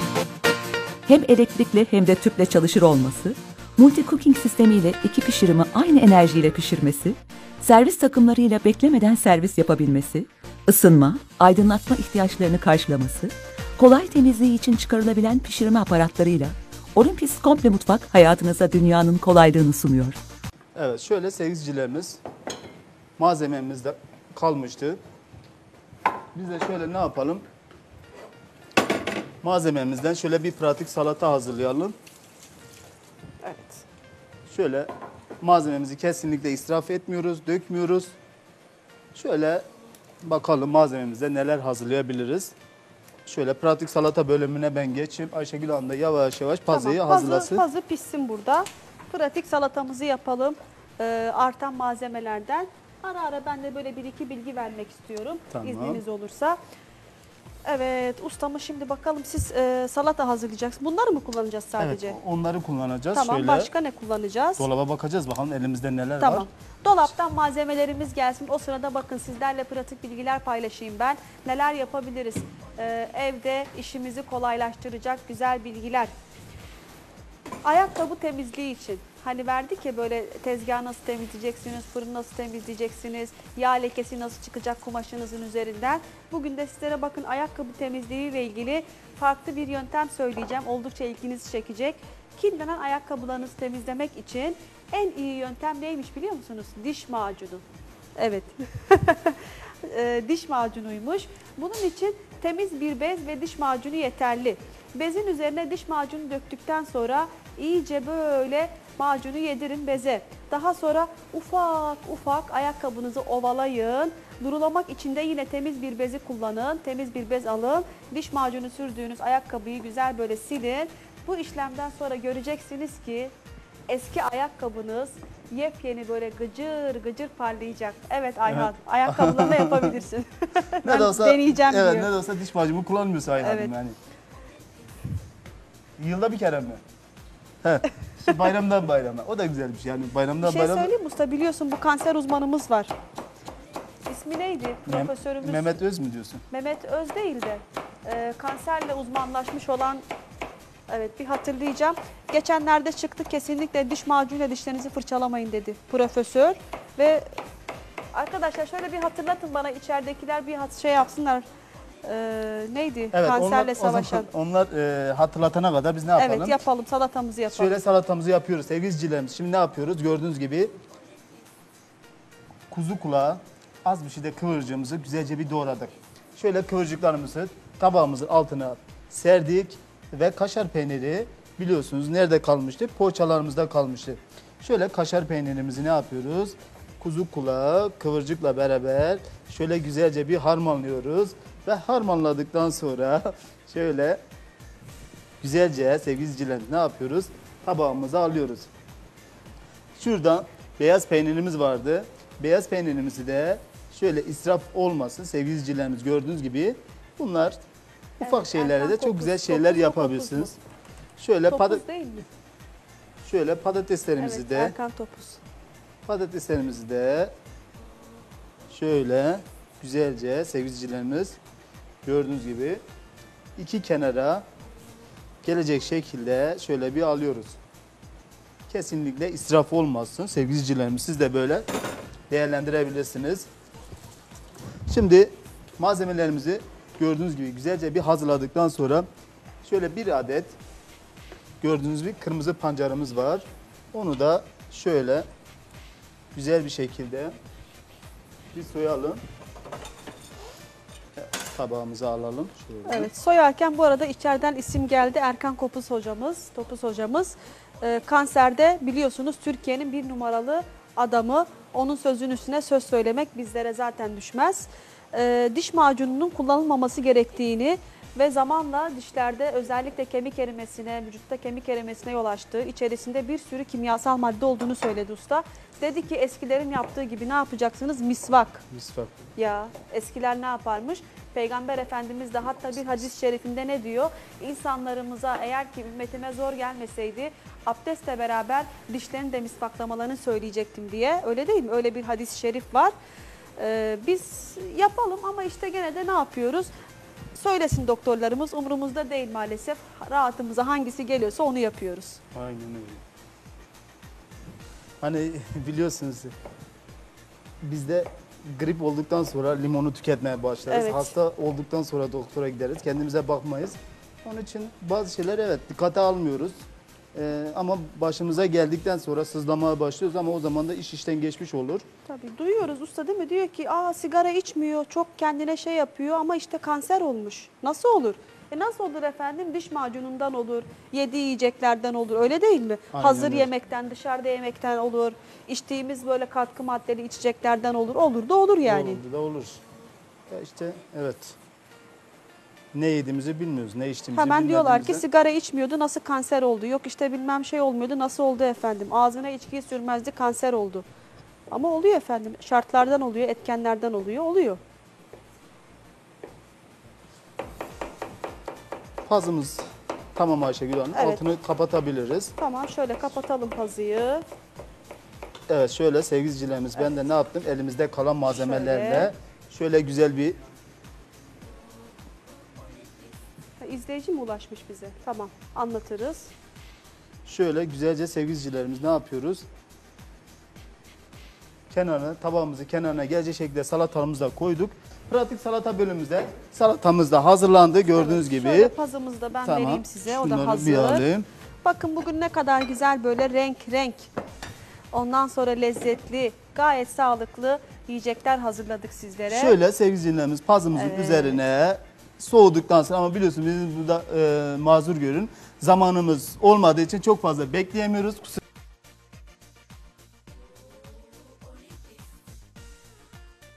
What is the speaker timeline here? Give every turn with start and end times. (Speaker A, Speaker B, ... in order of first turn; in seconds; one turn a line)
Speaker A: 1.1-20.2
Speaker B: 20.8-22.2
Speaker B: 23.2-25.0
Speaker B: 26.3-27.4
Speaker B: 29.4-32.0
Speaker C: 33.4-33.8
Speaker B: 34.5-34.9
Speaker B: 35.4-38.1
Speaker B: 39.1-39.6
Speaker B: 40.2-42.5
Speaker B: 43.3-47.6
Speaker C: 46.7-56.6
Speaker B: 55.5-56.0
Speaker C: 57.6-62.2
Speaker B: 61.8-63.7
Speaker C: 63.1-64.7
Speaker B: 64.6-66.5
Speaker C: 66.2-76.1
Speaker C: 77.6-97.6
Speaker C: 98.2-123.3
Speaker C: 123.9-132.1
Speaker B: 128.5-129.9
Speaker B: 130.8-134.0
Speaker C: 133.4-133.7
Speaker B: 136.0-136.8
Speaker B: 137.6-140.9
Speaker C: 140.4-142.9
Speaker C: 144.1-145.8
Speaker B: 144.9-146.4
Speaker C: 146.5-150.0
Speaker C: 150.9-157.4
Speaker C: 158.1-161.4
Speaker C: 162.0-164.3
Speaker B: 163.1-166.6
Speaker C: 166.2-167.8
Speaker B: 167.5-170.7
Speaker B: 172.7-194.2
Speaker B: 195.4-198.7
Speaker B: 200.0-207.6
Speaker B: 208.2-210.5
Speaker C: 208.2-210.6
Speaker B: 211.2-211.8
Speaker C: 211.5-212.3
Speaker B: 213.2-214.8
Speaker C: 214.2-215.4
Speaker B: 216.1-217.3
Speaker B: 218.7-221.4
Speaker B: 222.1-222.8
Speaker B: 223.6-224.4
Speaker B: 225.4-227.6
Speaker B: 228.7-231.7
Speaker B: 232.3-233.5
Speaker B: 234.9-239.1
Speaker B: 239.6-240.6
Speaker B: 241.6-245.3
Speaker B: 246.3-247.3
Speaker B: 248.5-249.2
Speaker B: 251.2-253.1
Speaker C: 252.9-278.6
Speaker B: 278.7-279.2
Speaker C: 279.4-292.9
Speaker C: 293.6-296.7
Speaker C: 297.3-302.2
Speaker B: 302.3-303.0
Speaker B: 305.0-306.3
Speaker B: 307.6-316.6
Speaker C: 310.7-311.1
Speaker B: 317.1-321.9
Speaker C: 322.1-339.0
Speaker B: 332.9-333.5
Speaker B: 338.6-339.6
Speaker B: 340.3-341.4
Speaker B: 342.7-345.0
Speaker C: 344.1-350.9
Speaker C: 351.5-354.6
Speaker B: 359.1-362.3
Speaker C: 360.9-361.2
Speaker C: 362.4-364.3
Speaker B: 365.5-370.4
Speaker C: 366.8-367.1
Speaker C: 368.3-369.1
Speaker C: 373.6-376.3
Speaker B: 377.3-379.5
Speaker B: 381.7-388.7
Speaker C: 387.9-391.0
Speaker B: 389.4-391.3
Speaker C: 391.6-394.1
Speaker C: 394.9-399.6
Speaker B: 399.3-408.4
Speaker C: 400.7-401.4